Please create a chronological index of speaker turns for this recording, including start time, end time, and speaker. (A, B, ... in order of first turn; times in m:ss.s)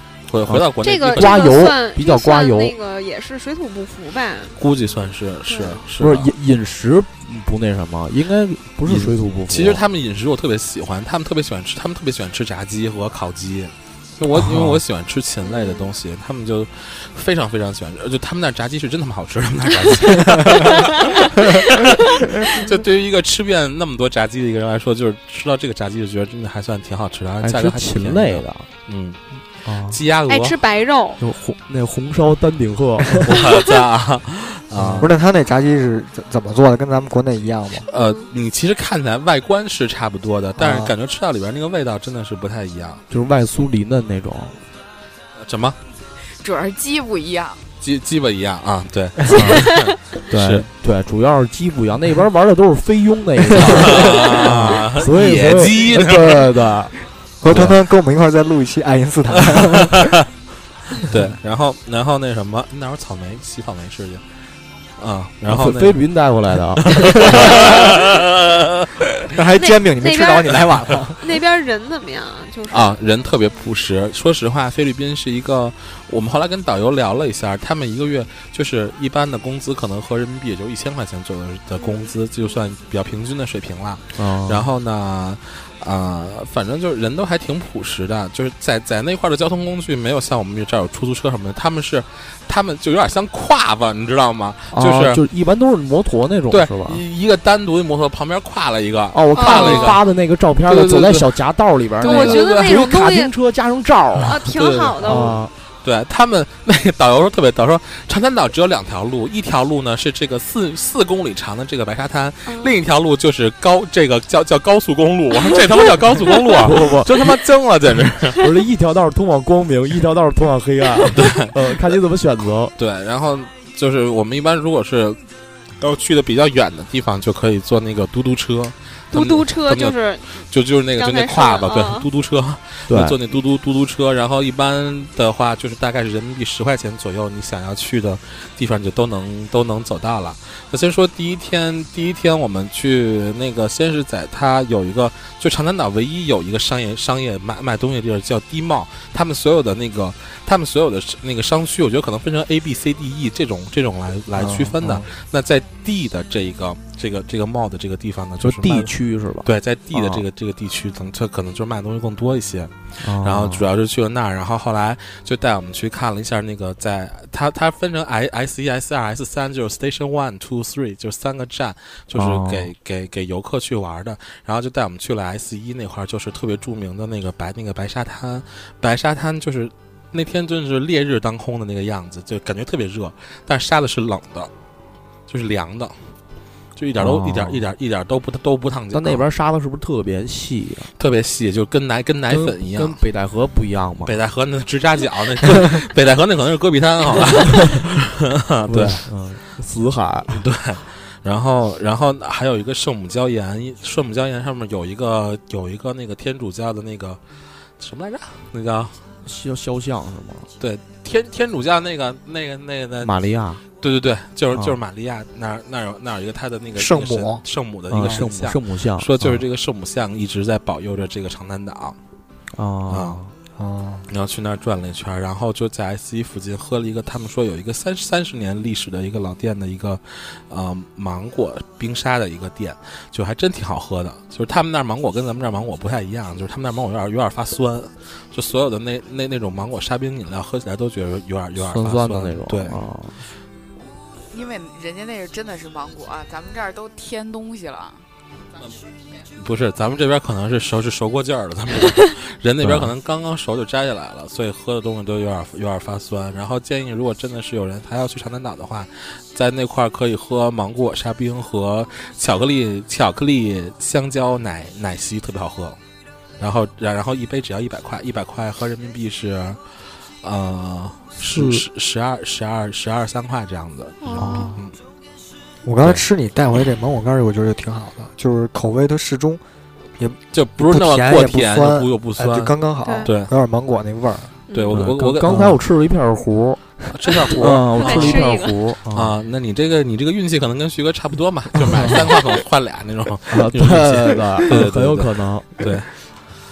0:00.3-0:01.6 A
0:00.5-0:02.7 B
0:00.8-0:04.6 C
0:04.6-0:06.3 A
0:05.5-0:05.8 C
0:06.0-0:09.8 B
0:08.9-0:29.2 A
0:14.4-0:14.8 B
0:15.5-0:15.9 C
0:20.7-0:21.3 C
0:27.4-0:28.7 B
0:29.6-0:30.0 B
0:29.9-0:30.6 A
0:30.3-0:31.2 C
0:31.2-0:33.2 B
0:33.2-0:35.1 A
0:34.7-0:35.1 B
0:35.0-0:37.9 D
0:37.9-0:43.0 A
0:37.9-0:38.3 C
0:40.6-0:40.9 D
0:43.1-0:44.6 B
0:45.4-0:45.8 A
0:46.4-0:47.6 E
0:47.8-0:50.7 A
0:49.3-0:49.6 B
0:49.4-0:49.9 C
0:50.3-0:56.9 B
0:53.6-0:56.5 A
0:57.4-1:00.2 D
0:57.5-0:57.8 A
0:59.3-1:00.2 A
1:01.0-1:04.2 A
1:05.0-1:06.0 A
1:05.4-1:07.4 B
1:06.8-1:09.2 A
1:07.2-1:07.8 D
1:09.3-1:11.2 D
1:09.6-1:10.6 C
1:11.2-1:13.0 C
1:12.7-1:35.2 A
1:24.2-1:24.7 B
1:34.7-1:37.0 B
1:36.5-1:40.0 A
1:39.1-1:44.4 B
1:39.3-1:40.0 C
1:40.7-1:41.3 A
1:42.0-1:42.8 A
1:42.0-1:43.3 C
1:44.2-1:45.4 C
1:44.4-1:58.4 A
1:45.0-1:45.5 B
1:52.4-1:52.7 C
1:55.4-1:55.7 C
1:56.3-1:56.5 C
1:56.6-1:57.1 B
1:58.4-2:02.7 B
2:01.1-2:01.5 A
2:02.8-2:05.2 A
2:05.8-2:38.9 A
2:09.1-2:10.4 C
2:10.9-2:12.1 C
2:12.9-2:13.2 B
2:34.4-2:35.0 B
2:38.4-2:40.2 B
2:39.4-3:04.5 A
2:43.0-2:43.6 B
2:52.1-2:52.7 B
3:05.3-3:06.0 A
3:06.8-3:09.2 A
3:07.0-3:07.6 B
3:08.9-3:10.9 B
3:11.0-3:13.0 A
3:12.3-3:14.1 B
3:14.0-3:19.0 A
3:17.5-3:17.8 B
3:18.7-3:20.4 B
3:20.3-3:27.2 A
3:27.8-3:29.0 A
3:29.2-3:30.5 B
3:30.6-3:33.1 A
3:33.0-3:33.6 B
3:33.8-3:42.0 A
3:36.8-3:37.4 D
3:37.9-3:39.4 B
3:42.5-3:43.3 B
3:42.9-3:43.2 A
3:43.6-3:44.0 D
3:44.1-4:02.8 A
4:01.6-4:03.2 B
4:04.3-4:08.0 E
4:09.3-4:25.8 A
4:12.6-4:12.9 B
4:26.4-4:29.6 A
4:30.2-4:34.7 A
4:31.2-4:31.6 B
4:34.0-4:34.6 C
4:34.2-4:34.5 B
4:35.6-4:39.4 D
4:40.0-4:44.3 D
4:40.3-4:43.3 A
4:42.8-4:43.1 C
4:44.5-4:44.8 C
4:44.5-4:45.5 A
4:44.7-4:46.7 B
4:46.9-4:48.3 A
4:47.2-4:48.6 C
4:47.4-4:49.1 B
4:48.9-4:55.9 A
4:53.3-4:55.5 B